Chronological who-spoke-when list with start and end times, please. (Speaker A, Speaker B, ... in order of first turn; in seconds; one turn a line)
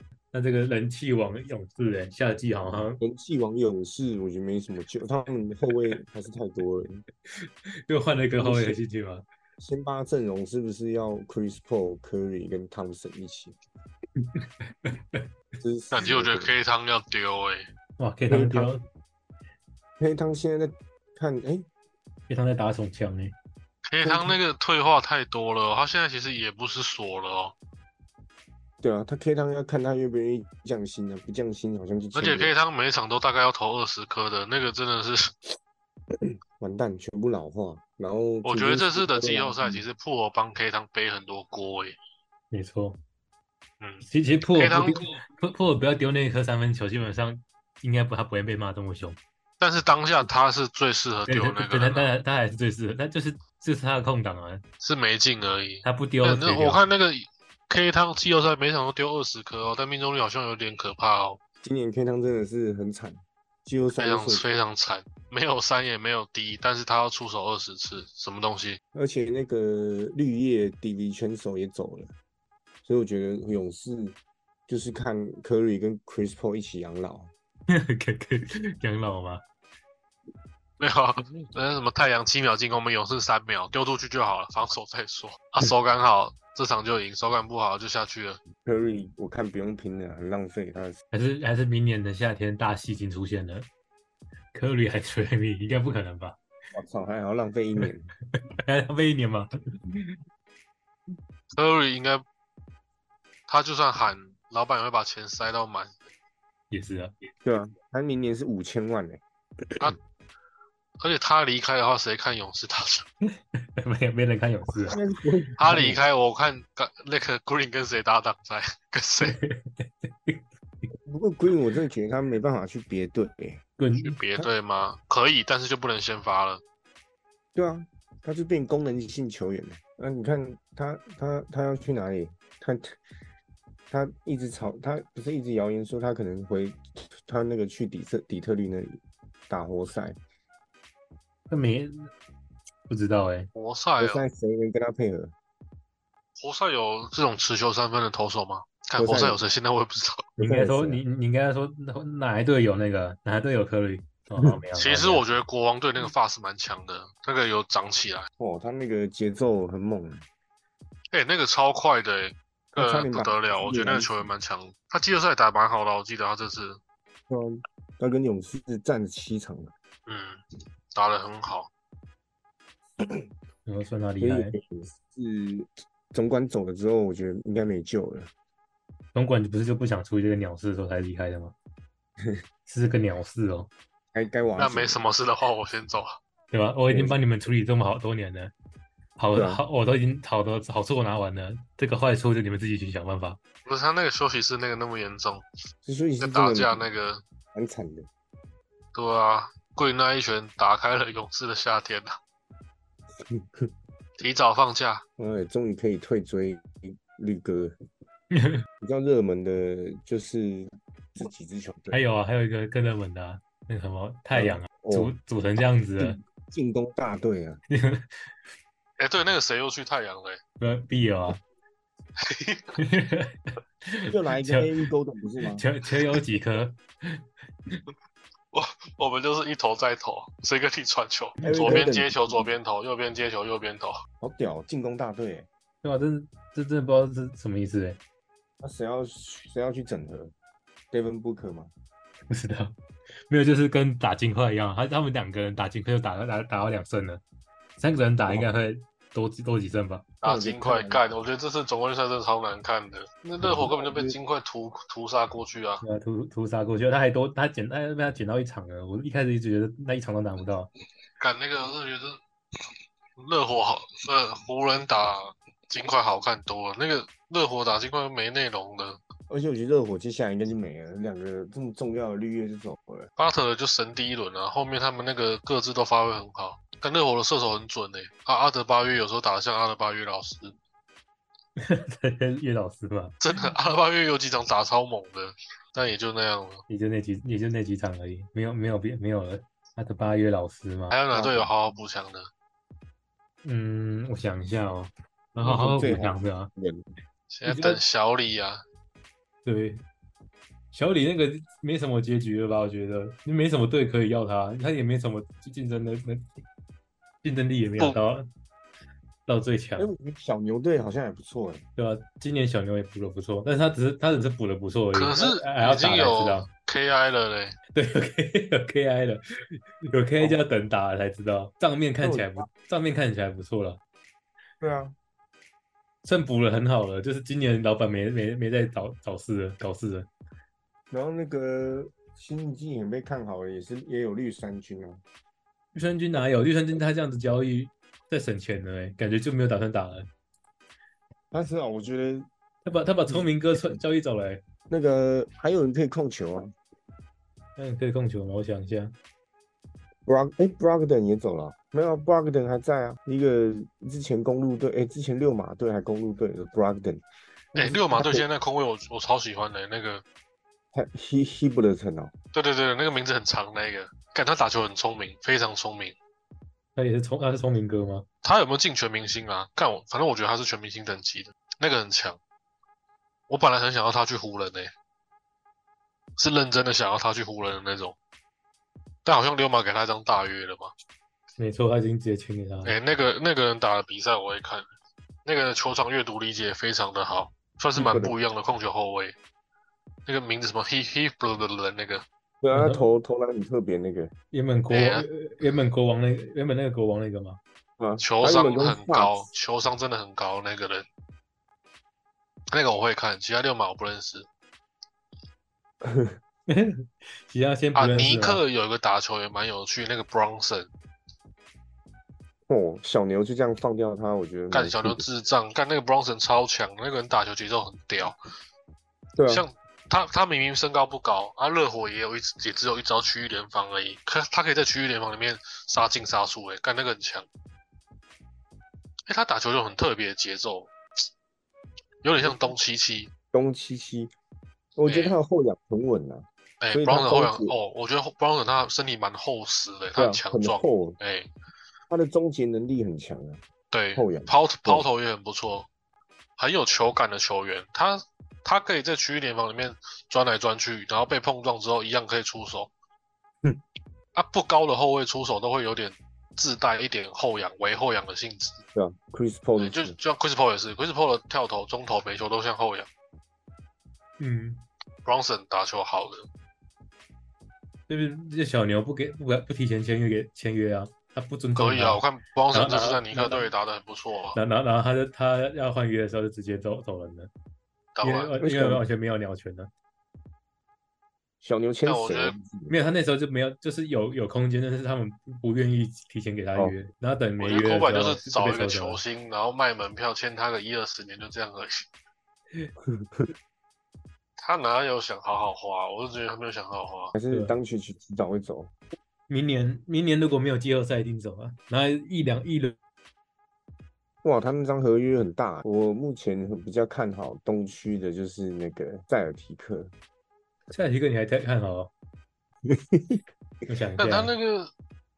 Speaker A: 0.3-3.0
Speaker B: 3.0-7.0
Speaker A: 7.4-9.2
Speaker B: 8.4-8.8
Speaker B: 9.6-13.6
Speaker A: 14.8-15.2
Speaker B: 15.6-16.5
Speaker C: 15.9-17.7
Speaker A: 18.0-18.8
Speaker B: 18.3-18.8
Speaker B: 20.0-21.7
Speaker A: 22.3-23.4
Speaker C: 23.9-27.6
Speaker B: 24.0-24.4
Speaker B: 28.8-32.5
Speaker C: 32.1-35.3
Speaker B: 36.2-39.8
Speaker C: 38.4-42.0
Speaker A: 42.5-43.0
Speaker C: 43.8-45.2
Speaker A: 44.1-49.2
Speaker C: 49.6-52.1
Speaker A: 51.3-54.6
Speaker C: 54.8-61.4
Speaker A: 55.8-56.8
Speaker B: 61.6-64.5
Speaker C: 64.0-68.8
Speaker B: 69.0-72.1
Speaker B: 72.8-77.3
Speaker A: 77.7-79.4
Speaker C: 80.8-88.4
Speaker B: 88.7-91.0
Speaker A: 91.1-93.7
Speaker A: 94.5-96.4
Speaker B: 96.7-98.1
Speaker A: 98.7-100.2
Speaker C: 101.5-102.2
Speaker C: 103.5-106.0
Speaker A: 106.7-107.1
Speaker B: 107.4-109.2
Speaker C: 111.0-113.1
Speaker A: 113.5-115.0
Speaker B: 114.9-116.0
Speaker C: 115.6-119.4
Speaker A: 119.2-120.4
Speaker B: 121.1-123.6
Speaker A: 123.8-124.2
Speaker C: 124.0-126.6
Speaker B: 127.5-133.0
Speaker B: 133.9-140.2
Speaker A: 141.5-142.1
Speaker A: 142.9-143.5
Speaker C: 143.6-144.2
Speaker B: 144.0-145.3
Speaker C: 146.4-150.3
Speaker B: 149.0-149.4
Speaker B: 150.4-151.0
Speaker A: 150.4-155.2
Speaker C: 154.8-158.3
Speaker B: 158.4-160.2
Speaker C: 161.1-166.8
Speaker B: 162.7-164.1
Speaker B: 167.3-169.7
Speaker C: 170.1-170.4
Speaker C: 170.9-171.7
Speaker A: 173.7-174.6
Speaker B: 174.2-178.3
Speaker A: 179.1-181.6
Speaker A: 182.7-183.7
Speaker B: 184.1-185.0
Speaker C: 184.6-186.2
Speaker A: 186.5-188.5
Speaker B: 186.9-187.2
Speaker A: 189.2-193.4
Speaker B: 189.3-189.6
Speaker C: 193.7-195.4
Speaker B: 195.8-196.8
Speaker C: 196.2-197.2
Speaker B: 197.5-198.1
Speaker C: 198.9-202.2
Speaker B: 203.3-203.7
Speaker C: 204.2-205.0
Speaker B: 205.2-207.7
Speaker A: 208.3-208.6
Speaker B: 208.8-212.0
Speaker A: 211.9-216.2
Speaker B: 214.3-215.1
Speaker B: 216.0-217.6
Speaker A: 217.7-218.1
Speaker C: 219.0-220.4
Speaker A: 220.6-221.4
Speaker C: 222.2-222.8
Speaker A: 222.8-224.7
Speaker B: 224.1-225.6
Speaker A: 225.6-227.2
Speaker C: 228.5-234.0
Speaker A: 231.4-231.8
Speaker B: 231.4-232.5
Speaker B: 234.2-235.5
Speaker A: 235.8-238.0
Speaker B: 238.6-240.3
Speaker B: 240.9-241.7
Speaker A: 242.3-242.8
Speaker A: 243.3-247.2
Speaker A: 247.8-250.1
Speaker C: 250.2-255.8
Speaker B: 250.2-251.0
Speaker B: 253.4-254.2
Speaker A: 255.8-260.7
Speaker C: 261.2-262.2
Speaker C: 263.2-269.0
Speaker B: 269.3-273.1
Speaker C: 273.2-280.6
Speaker A: 281.6-283.1
Speaker C: 283.2-286.6
Speaker A: 286.7-291.0
Speaker C: 290.9-292.3
Speaker B: 291.1-291.5
Speaker A: 293.4-296.5
Speaker B: 295.4-296.9
Speaker C: 297.3-298.6
Speaker A: 297.5-297.8
Speaker A: 299.4-299.8
Speaker A: 300.7-306.4
Speaker A: 307.2-308.3
Speaker A: 309.3-309.9
Speaker B: 309.8-311.6
Speaker A: 311.8-316.5
Speaker C: 314.9-317.6
Speaker A: 317.7-323.8
Speaker B: 322.0-322.5
Speaker B: 324.6-324.9
Speaker A: 326.0-330.1
Speaker B: 330.9-335.0
Speaker A: 335.7-340.1
Speaker B: 341.3-342.3
Speaker A: 342.6-344.4
Speaker B: 344.7-346.5
Speaker A: 347.6-348.9
Speaker B: 350.1-358.2
Speaker C: 357.6-360.0
Speaker B: 360.7-362.1
Speaker C: 362.3-366.0
Speaker A: 366.8-368.1
Speaker C: 368.2-372.2
Speaker C: 373.3-374.7
Speaker C: 376.2-378.0
Speaker C: 379.1-380.7
Speaker A: 381.4-382.8
Speaker C: 382.6-384.6
Speaker C: 385.2-389.2
Speaker B: 387.8-388.1
Speaker C: 390.1-392.1
Speaker B: 392.4-394.1
Speaker A: 392.5-392.8
Speaker A: 394.3-397.4
Speaker C: 394.7-395.1
Speaker B: 397.8-399.3
Speaker C: 398.0-400.9
Speaker C: 402.5-404.3
Speaker B: 405.8-406.2
Speaker A: 406.5-408.4
Speaker C: 407.8-410.7
Speaker B: 412.5-415.1
Speaker C: 414.5-418.2
Speaker B: 419.2-419.4
Speaker C: 419.2-427.3
Speaker C: 429.1-430.7
Speaker C: 432.0-433.1
Speaker B: 433.3-434.1
Speaker B: 434.8-437.5
Speaker C: 434.9-435.2
Speaker C: 436.6-441.3
Speaker B: 440.0-441.0
Speaker B: 441.9-443.4
Speaker C: 443.7-445.7
Speaker B: 444.0-444.9
Speaker C: 446.4-452.7
Speaker C: 454.1-458.6
Speaker B: 458.8-460.0
Speaker C: 459.6-462.9
Speaker A: 464.2-464.6
Speaker C: 465.1-466.3
Speaker A: 467.9-473.3
Speaker C: 471.6-474.4
Speaker B: 473.1-473.4
Speaker A: 474.3-477.3
Speaker C: 478.0-478.3
Speaker A: 478.0-479.7
Speaker B: 478.4-478.8
Speaker B: 481.4-482.8
Speaker C: 481.9-482.4
Speaker A: 482.7-489.0
Speaker C: 487.4-491.9
Speaker B: 492.8-493.3
Speaker C: 494.4-497.1
Speaker B: 497.1-498.7
Speaker A: 497.3-497.6
Speaker A: 499.3-502.8
Speaker B: 504.2-509.9
Speaker A: 510.7-511.9
Speaker B: 512.7-513.2
Speaker A: 513.7-514.3
Speaker C: 514.0-514.7